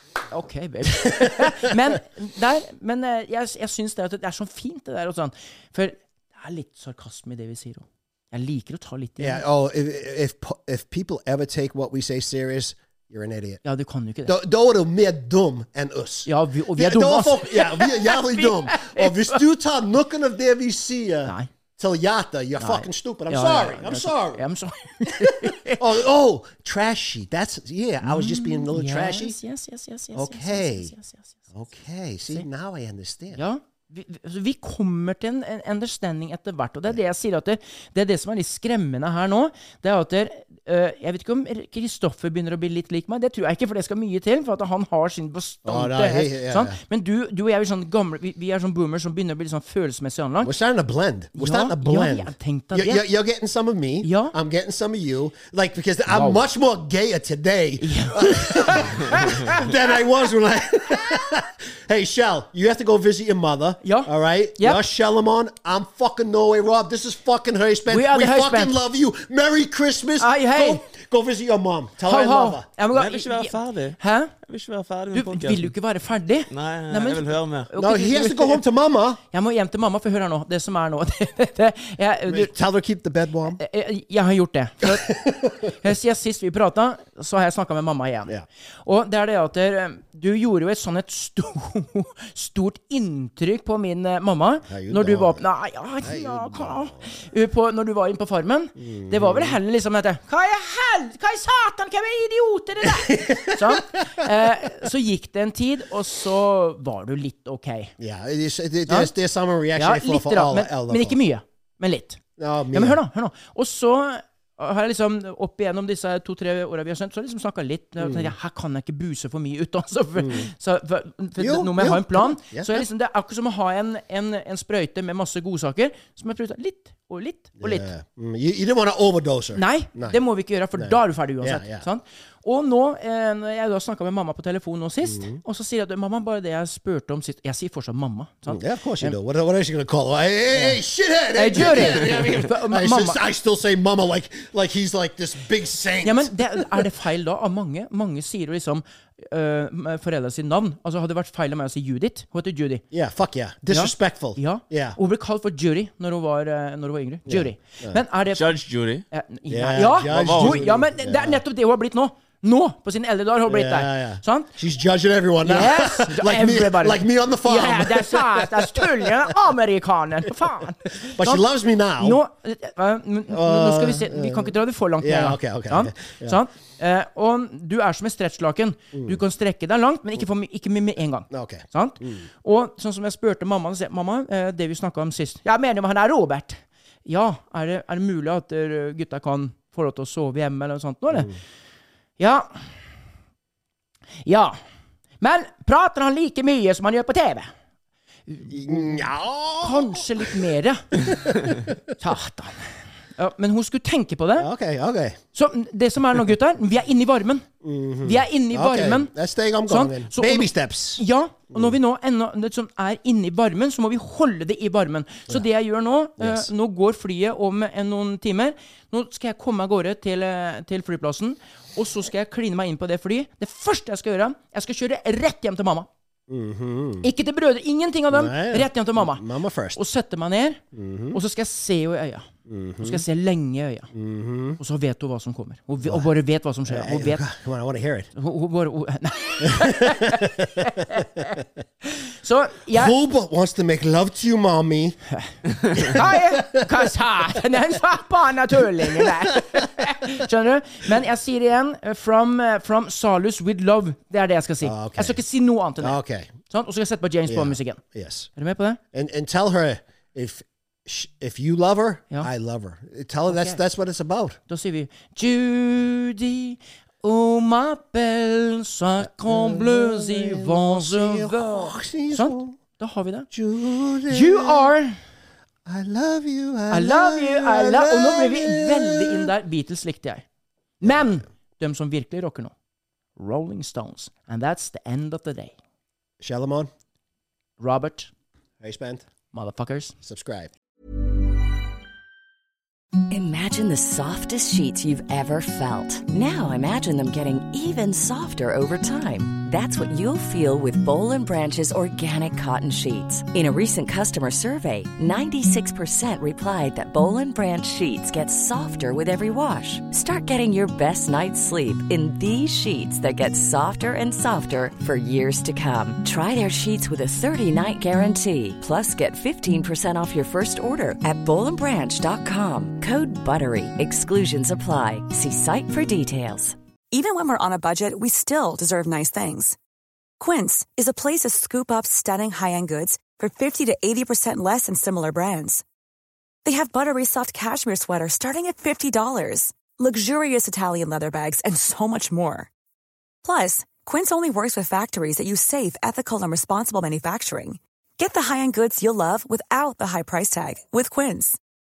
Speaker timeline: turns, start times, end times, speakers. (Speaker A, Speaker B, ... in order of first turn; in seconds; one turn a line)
Speaker A: 0.3-9.4
Speaker B: 0.9-1.8
Speaker B: 9.2-13.6
Speaker A: 13.6-14.3
Speaker B: 14.2-24.5
Speaker A: 16.3-19.4
Speaker A: 21.3-21.5
Speaker A: 22.6-25.8
Speaker B: 25.1-29.4
Speaker A: 28.0-31.4
Speaker B: 30.1-30.9
Speaker B: 31.5-33.4
Speaker A: 33.4-50.5
Speaker B: 45.6-46.8
Speaker B: 50.4-72.7
Speaker A: 51.4-53.0
Speaker A: 54.0-54.4
Speaker A: 56.1-56.4
Speaker A: 57.8-59.6
Speaker A: 63.8-64.8
Speaker A: 67.9-68.8
Speaker A: 70.2-70.8
Speaker A: 72.0-74.3
Speaker C: 72.9-75.7
Speaker A: 75.1-78.6
Speaker C: 76.5-77.7
Speaker B: 77.8-79.2
Speaker A: 79.3-82.5
Speaker B: 82.3-83.6
Speaker A: 83.6-88.3
Speaker B: 84.8-85.6
Speaker A: 88.8-107.9
Speaker B: 94.7-95.4
Speaker B: 96.0-97.1
Speaker B: 98.8-99.6
Speaker B: 102.8-104.3
Speaker B: 108.0-111.2
Speaker A: 109.8-112.2
Speaker B: 112.4-113.0
Speaker A: 112.7-127.9
Speaker B: 118.0-118.3
Speaker B: 120.2-120.5
Speaker B: 121.4-122.9
Speaker B: 127.6-130.2
Speaker A: 129.6-139.2
Speaker B: 130.8-131.9
Speaker B: 135.1-135.4
Speaker B: 138.5-146.9
Speaker A: 140.5-140.8
Speaker A: 141.3-143.2
Speaker A: 146.0-152.8
Speaker B: 152.9-155.0
Speaker A: 153.7-158.5
Speaker B: 157.3-158.0
Speaker C: 158.3-159.0
Speaker A: 159.1-164.5
Speaker B: 159.5-161.4
Speaker C: 160.1-160.6
Speaker B: 163.5-169.3
Speaker A: 165.4-171.4
Speaker B: 170.9-172.2
Speaker A: 172.0-191.3
Speaker B: 173.3-176.4
Speaker B: 178.9-179.2
Speaker B: 181.3-182.3
Speaker A: 192.2-192.6
Speaker A: 194.2-194.6
Speaker A: 195.2-197.5
Speaker A: 198.3-199.1
Speaker B: 198.5-200.3
Speaker A: 199.6-204.5
Speaker B: 200.9-201.8
Speaker B: 204.4-205.2
Speaker A: 205.3-207.5
Speaker B: 207.6-211.7
Speaker A: 208.0-209.1
Speaker A: 209.7-225.9
Speaker B: 216.2-216.5
Speaker B: 226.3-227.1
Speaker A: 227.0-229.2
Speaker B: 228.1-229.8
Speaker A: 229.8-232.3
Speaker B: 230.7-231.2
Speaker B: 232.5-233.1
Speaker A: 232.8-233.9
Speaker B: 233.9-234.6
Speaker A: 234.6-237.3
Speaker B: 236.7-238.1
Speaker A: 238.2-242.9
Speaker B: 239.4-241.4
Speaker B: 242.7-245.0
Speaker A: 245.1-257.8
Speaker B: 245.8-246.9
Speaker B: 248.8-249.7
Speaker B: 254.6-255.2
Speaker B: 255.8-256.3
Speaker B: 257.3-258.3
Speaker A: 258.4-258.8
Speaker B: 258.9-264.4
Speaker A: 263.3-263.6
Speaker A: 264.5-273.3
Speaker B: 269.0-272.6
Speaker B: 273.3-274.7
Speaker A: 274.1-275.0
Speaker B: 275.7-279.3
Speaker A: 276.7-280.2
Speaker A: 280.8-282.5
Speaker B: 280.8-281.1
Speaker A: 283.2-285.6
Speaker B: 286.2-286.7
Speaker A: 287.6-288.1
Speaker B: 288.6-289.1
Speaker A: 289.3-290.0
Speaker B: 290.0-290.5
Speaker D: 293.1-326.6
Speaker E: 326.9-329.6
Speaker E: 330.2-335.6
Speaker E: 336.4-342.5
Speaker E: 343.2-351.4